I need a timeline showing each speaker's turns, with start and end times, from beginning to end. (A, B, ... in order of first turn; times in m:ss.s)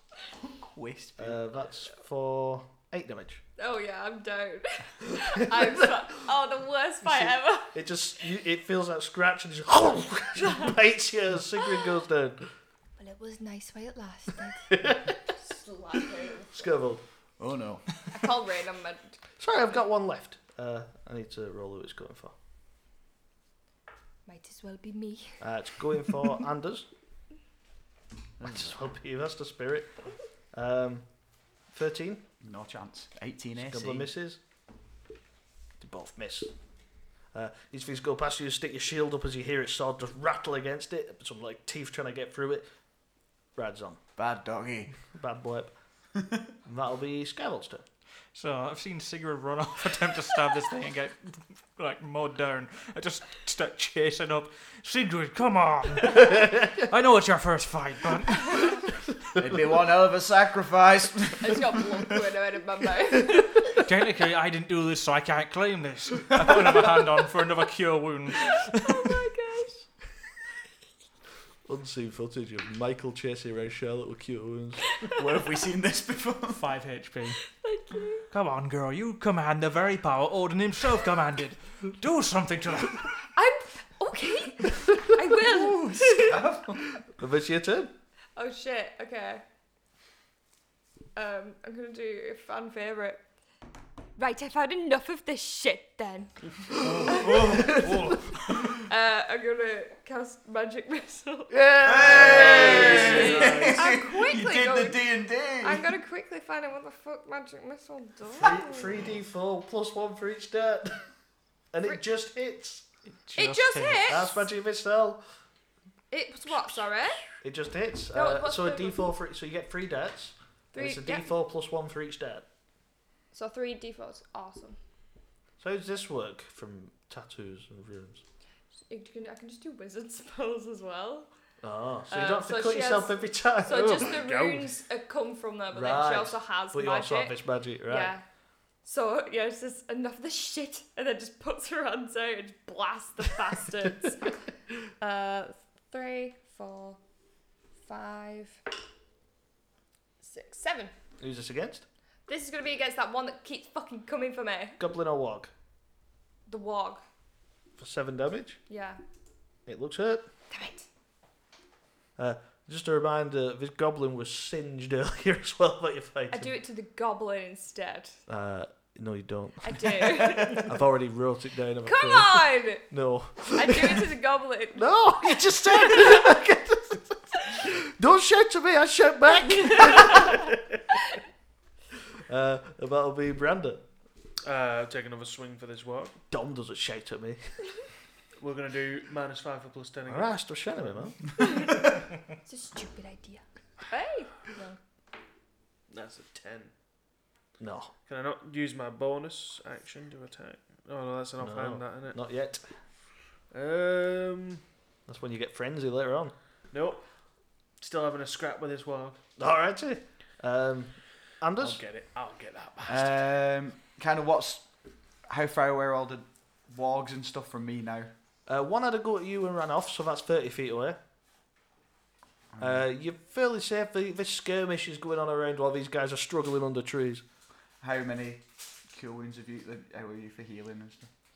0:00.4-0:01.4 A
0:01.2-0:03.4 B
0:03.6-0:07.8 C
0:05.4-0:06.0 B
0:07.0-0:12.5 B
0:10.4-0:10.7 C
0:13.0-0:16.7 C
0:14.7-0:15.2 B
0:16.5-0:17.0 B
0:17.4-0:17.9 A
0:18.1-0:19.2 C
0:19.4-0:22.3 B
0:24.3-0:25.4 C
0:25.4-0:26.9 B
0:28.4-0:29.9 B
0:30.5-0:31.1 B
0:31.7-0:32.2 B
0:32.4-0:34.1 A
0:33.6-0:34.4 B
0:35.8-0:36.5 B
0:37.3-0:42.7 B
0:43.6-0:44.0 B
0:44.2-0:45.0 A
0:45.1-0:45.7 B
0:46.6-0:47.8 B
0:48.3-0:59.0 D
0:59.4-1:02.2 A
1:01.4-1:03.7 C
1:03.7-1:09.2 D
1:08.4-1:09.9 C
1:11.7-1:15.0 B
1:15.1-1:16.6 A
1:16.5-1:17.4 D
1:17.5-1:18.3 C
1:18.3-1:23.2 D
1:23.3-1:26.4 C
1:25.4-1:27.0 A
1:27.1-1:27.9 B
1:28.4-1:29.4 C
1:31.2-1:33.2 C
1:34.2-1:37.6 C
1:36.8-1:38.1 B
1:36.8-1:38.7 A
1:38.9-1:48.9 C
1:41.5-1:43.4 B
1:41.8-1:45.9 A
1:42.6-1:43.9 E
1:48.3-1:51.1 B
1:51.7-1:52.8 B
1:53.1-1:54.3 D
1:53.4-1:54.4 C
1:54.1-1:55.2 B
1:56.1-1:57.3 C
1:57.4-2:02.4 B
1:58.1-1:59.0 C
2:00.7-2:01.3 C
2:03.3-2:04.8 C
2:05.6-2:08.2 B
2:08.9-2:11.3 C
2:11.6-2:14.1 B
2:12.1-2:18.2 C
2:13.7-2:14.8 E
2:15.7-2:18.1 B
2:18.8-2:24.3 C
2:25.0-2:27.0 C
2:27.9-2:28.6 C
2:30.2-2:30.9 C
2:31.2-2:31.9 B
2:32.3-2:34.8 C
2:34.8-2:35.5 B
2:36.5-2:37.0 C
2:37.8-2:38.6 B
2:38.7-2:39.0 C
2:39.7-2:40.3 B
2:40.5-2:40.9 C
2:42.2-2:46.5 B
2:46.3-2:48.2 C
2:48.3-2:54.1 B
2:49.6-2:50.7 C
2:51.8-2:52.9 C
2:53.5-2:56.2 C
2:54.8-3:00.8 B
2:59.5-3:00.4 C
3:02.1-3:03.8 B
3:04.4-3:06.2 E
3:06.3-3:07.4 B
3:08.4-3:11.1 E
3:10.1-3:11.6 B
3:11.4-3:11.8 C
3:12.4-3:14.8 C
3:15.9-3:16.7 E
3:17.6-3:17.9 B
3:18.1-3:22.2 E
3:21.4-3:22.6 B
3:23.5-3:24.6 E
3:25.1-3:26.3 B
3:26.7-3:27.0 E
3:27.8-3:29.2 E
3:29.4-3:31.8 B
3:31.6-3:33.2 E
3:32.9-3:34.7 A
3:35.3-3:38.1 A
3:38.5-3:41.0 B
3:42.5-3:42.8 A
3:42.6-3:47.2 B
3:47.8-3:51.1 A